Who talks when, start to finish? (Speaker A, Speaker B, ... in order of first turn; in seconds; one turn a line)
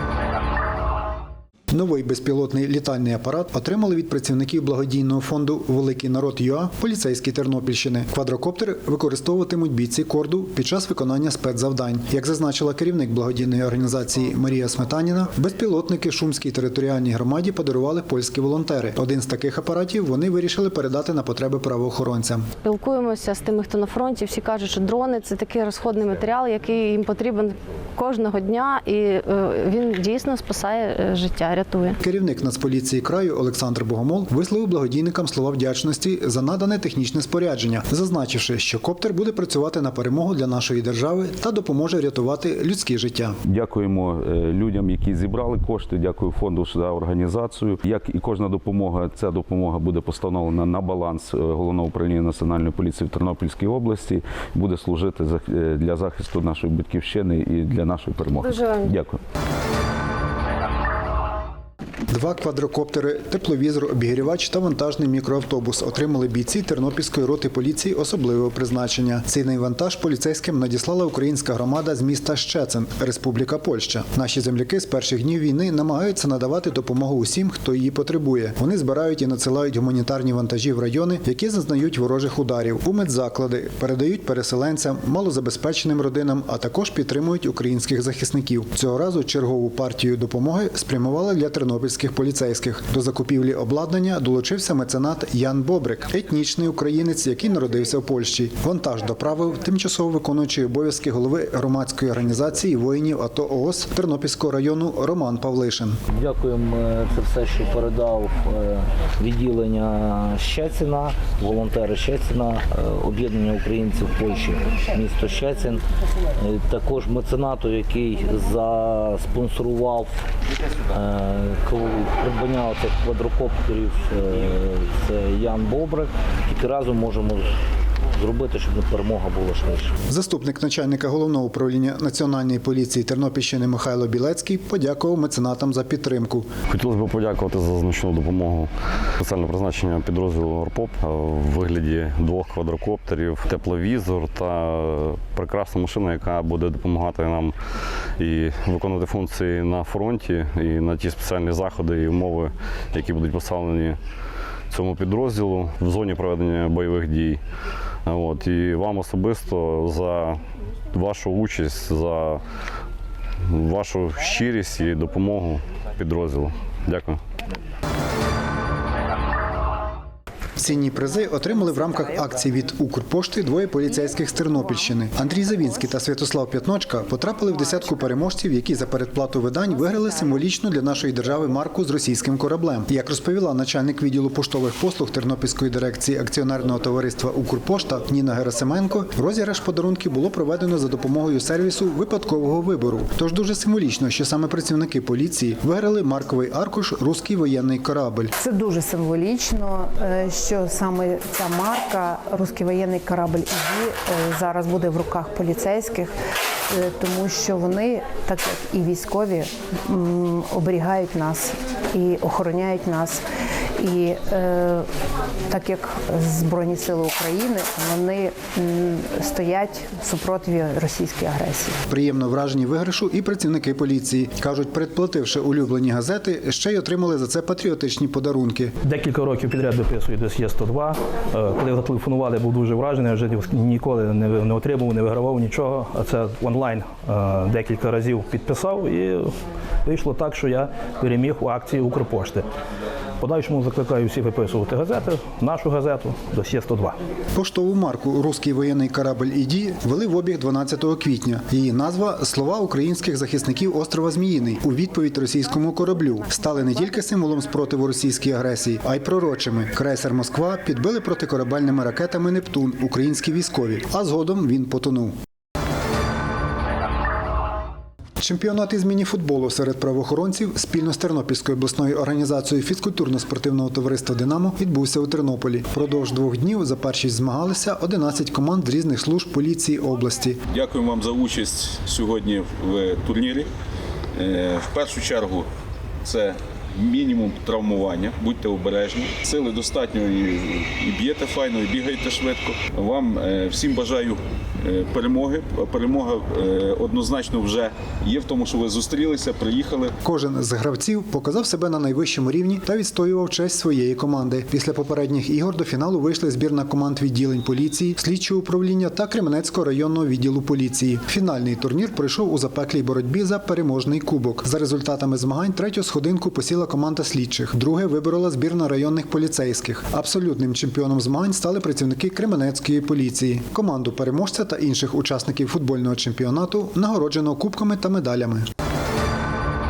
Speaker A: 1.7-22.5
Speaker B: 22.6-32.0
Speaker A: 32.0-43.4
Speaker C: 43.5-59.2
Speaker B: 58.4-58.9
Speaker A: 62.1-106.0
Speaker D: 106.2-115.8
Speaker D: 116.4-120.1
Speaker D: 120.9-127.5
Speaker D: 128.2-129.9
Speaker A: 130.1-136.6
Speaker E: 136.7-147.6
Speaker E: 148.2-154.0
Speaker E: 154.7-157.4
Speaker E: 158.1-160.4
Speaker E: 160.9-162.4
Speaker E: 163.5-167.2
Speaker A: 170.6-198.3
Speaker F: 198.4-206.1
Speaker F: 206.7-213.2
Speaker F: 213.8-214.9
Speaker F: 215.5-221.8
Speaker A: 221.9-228.7
Speaker G: 228.8-242.5
Speaker G: 243.2-247.0
Speaker A: 247.3-265.1
Speaker A: 268.2-280.4
Speaker H: 280.5-283.5
Speaker H: 284.1-285.5
Speaker H: 286.0-299.9
Speaker A: 300.0-328.5